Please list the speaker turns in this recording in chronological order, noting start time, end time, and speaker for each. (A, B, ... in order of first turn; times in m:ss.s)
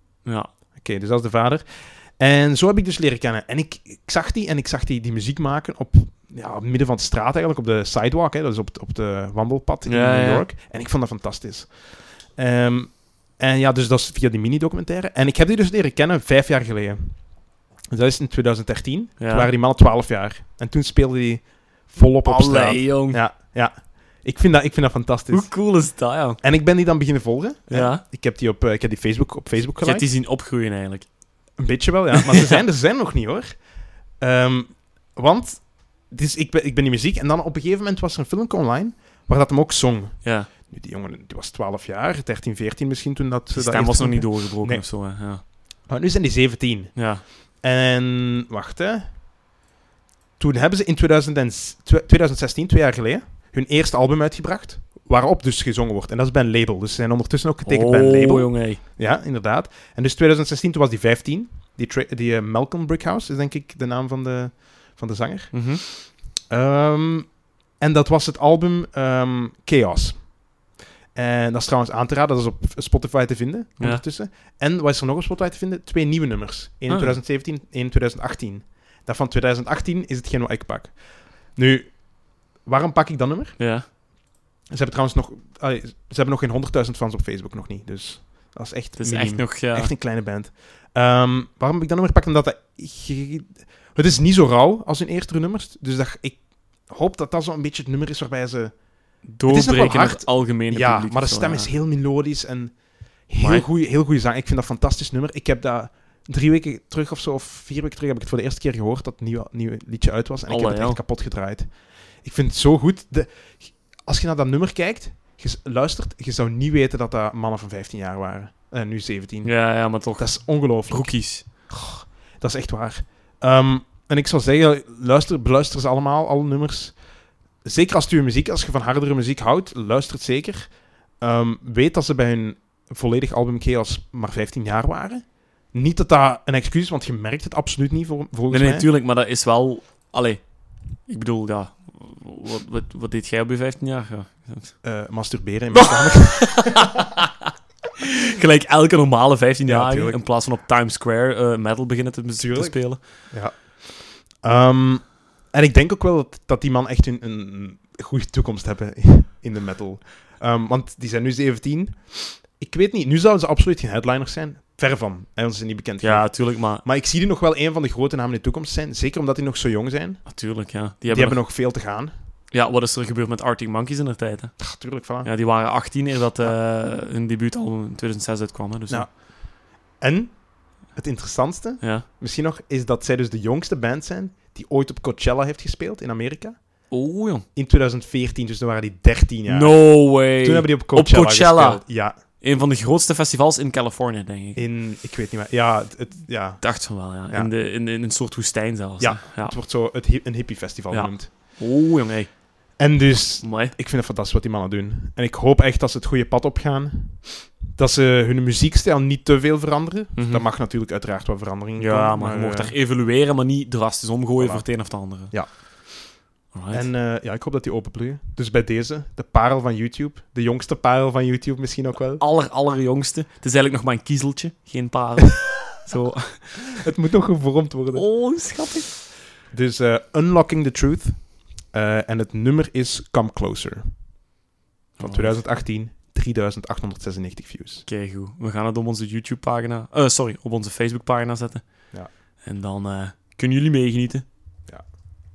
0:00.2-0:00.5 A
0:00.8-0:30.1 B
0:09.9-0:10.5 A
0:19.2-0:19.5 A
0:22.2-0:23.2 A
0:25.3-0:26.4 A
0:27.7-0:28.0 A
0:29.8-0:31.5 A
0:31.6-0:49.2 B
0:40.2-0:40.5 A
0:43.5-0:45.4 A
0:47.0-0:47.2 A
0:50.4-1:10.5 B
0:57.6-0:58.8 A
1:05.5-1:05.8 A
1:11.1-1:23.7 B
1:16.9-1:17.2 A
1:23.6-1:23.9 A
1:24.7-2:07.1 B
1:29.0-1:29.9 A
1:39.2-1:41.7 A
1:43.4-1:43.7 A
1:50.5-1:51.0 A
1:59.4-2:01.4 A
2:07.6-2:18.9 B
2:18.5-2:24.8 A
2:24.8-2:26.9 B
2:26.0-2:27.3 A
2:28.3-2:33.0 A
2:29.6-2:30.3 B
2:32.4-2:52.1 B
2:46.0-2:46.8 A
2:50.3-2:51.5 A
2:52.5-2:59.1 A
2:54.6-2:56.6 B
2:58.9-3:07.0 B
3:01.8-3:02.1 A
3:06.9-3:07.4 A
3:07.5-3:12.2 B
3:09.5-3:14.6 A
3:14.6-3:17.5 B
3:16.6-3:19.6 A
3:19.0-3:21.6 B
3:20.9-3:23.8 A
3:22.8-3:32.8 B
3:30.2-3:30.4 A
3:31.8-3:35.6 A
3:34.4-3:36.2 B
3:36.5-3:36.9 A
3:36.7-3:42.2 B
3:42.2-3:46.8 A
3:46.4-3:48.7 B
3:47.9-3:49.0 A
3:49.4-3:54.0 B
3:55.0-3:55.4 A
3:55.0-3:57.9 B
3:57.9-4:04.3 A